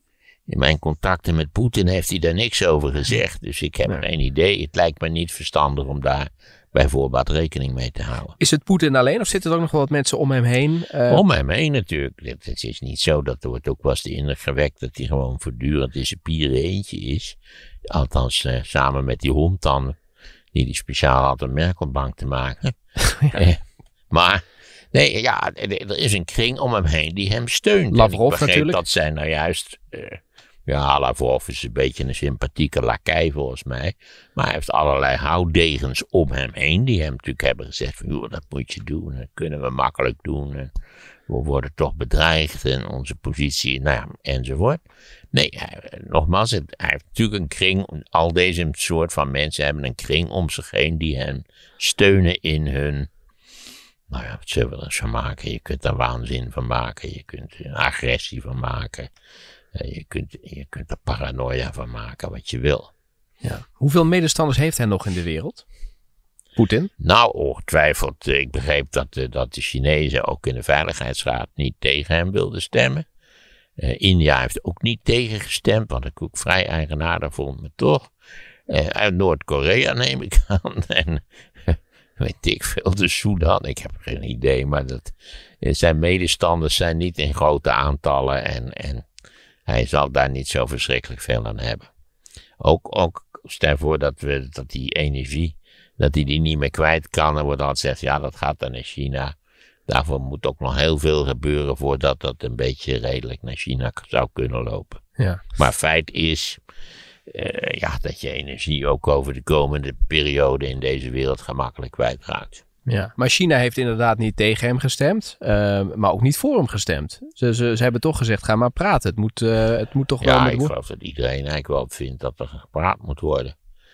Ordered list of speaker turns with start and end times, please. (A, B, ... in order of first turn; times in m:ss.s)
0:00.5-0:08.4 A
0:08.4-0:11.2 B
0:11.1-0:17.4 A
0:17.9-0:20.0 A
0:20.5-0:23.6 A
0:24.1-0:40.7 A
0:27.9-0:28.8 B
0:41.3-0:44.8 A
0:45.3-0:53.1 A
0:54.1-0:59.1 A
0:59.7-1:02.9 A
1:03.4-1:05.6 B
1:06.6-1:06.9 B
1:07.0-1:13.1 A
1:13.8-1:18.1 A
1:18.7-1:29.1 A
1:29.7-1:31.9 A
1:32.6-1:39.4 A
1:39.9-1:45.0 A
1:45.2-1:45.4 B
1:45.6-1:46.6 A
1:47.3-1:52.6 A
1:52.9-2:00.7 B
2:00.2-2:03.6 A